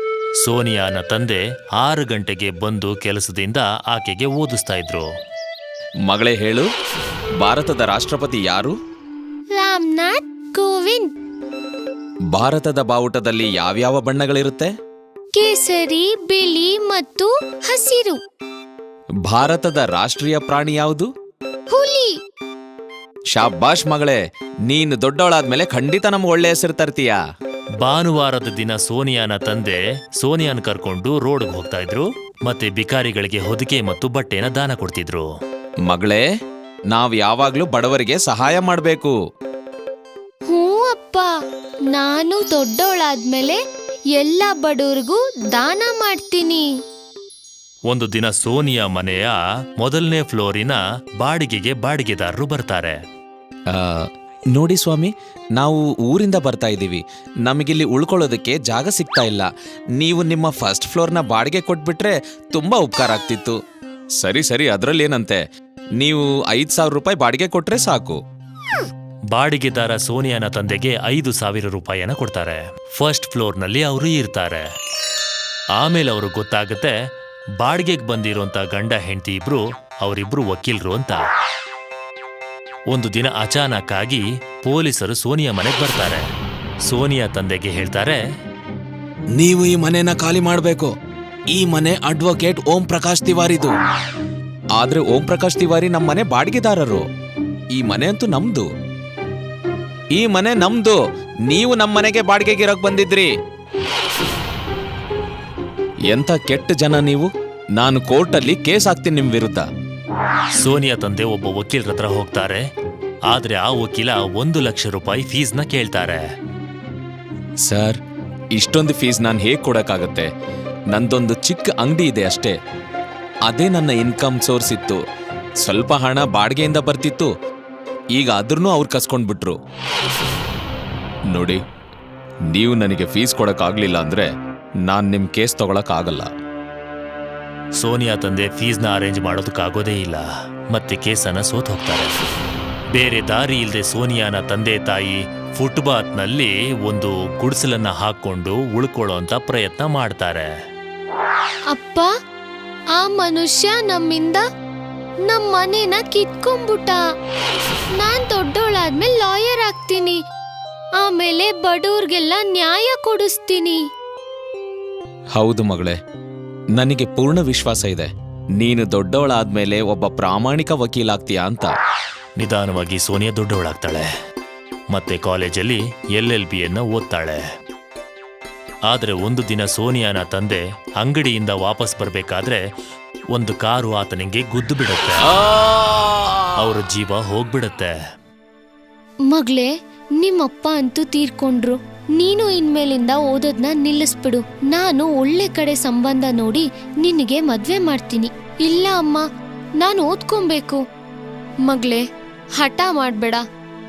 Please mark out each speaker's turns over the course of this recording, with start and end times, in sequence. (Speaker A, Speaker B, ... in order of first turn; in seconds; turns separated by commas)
Speaker A: 0.4-5.1, Speaker B: 6.1-6.7, Speaker B: 7.4-8.7, Speaker C: 9.5-11.1, Speaker B: 12.3-14.7, Speaker C: 15.3-18.2, Speaker B: 19.3-21.1, Speaker C: 21.7-22.2, Speaker B: 23.3-27.2, Speaker A: 27.8-35.3, Speaker B: 35.9-36.2, Speaker B: 36.9-39.1, Speaker C: 40.5-41.3, Speaker C: 41.9-43.6, Speaker C: 44.1-46.7, Speaker A: 47.9-53.0, Speaker B: 53.7-59.5, Speaker B: 60.0-63.5, Speaker B: 64.2-65.4, Speaker B: 66.0-68.2, Speaker A: 69.3-74.6, Speaker A: 75.8-76.9, Speaker A: 77.6-81.2, Speaker A: 82.9-86.2, Speaker A: 86.9-88.2, Speaker B: 89.4-90.9, Speaker B: 91.5-93.7, Speaker B: 94.8-97.0, Speaker B: 97.8-98.7, Speaker B: 100.2-101.0, Speaker B: 101.5-103.3, Speaker B: 106.1-109.6, Speaker A: 110.6-112.6, Speaker A: 113.3-116.2, Speaker B: 117.7-118.0, Speaker B: 118.5-120.3, Speaker B: 120.9-122.5, Speaker B: 123.5-125.0, Speaker B: 125.6-127.3, Speaker B: 128.2-129.6, Speaker B: 131.3-131.6, Speaker B: 132.5-134.3, Speaker B: 134.9-136.3, Speaker A: 137.8-142.1, Speaker A: 142.9-150.5, Speaker C: 151.7-152.1, Speaker C: 152.9-154.4, Speaker C: 155.2-157.0, Speaker C: 158.0-160.2, Speaker C: 161.0-163.8, Speaker B: 165.3-166.0, Speaker B: 166.8-171.7, Speaker A: 172.4-174.0, Speaker A: 174.9-177.4, Speaker A: 178.9-182.6, Speaker A: 183.3-185.3, Speaker B: 185.4-186.2, Speaker A: 186.6-187.9, Speaker C: 189.3-199.2, Speaker C: 199.8-200.8, Speaker C: 201.7-202.0, Speaker C: 202.6-203.4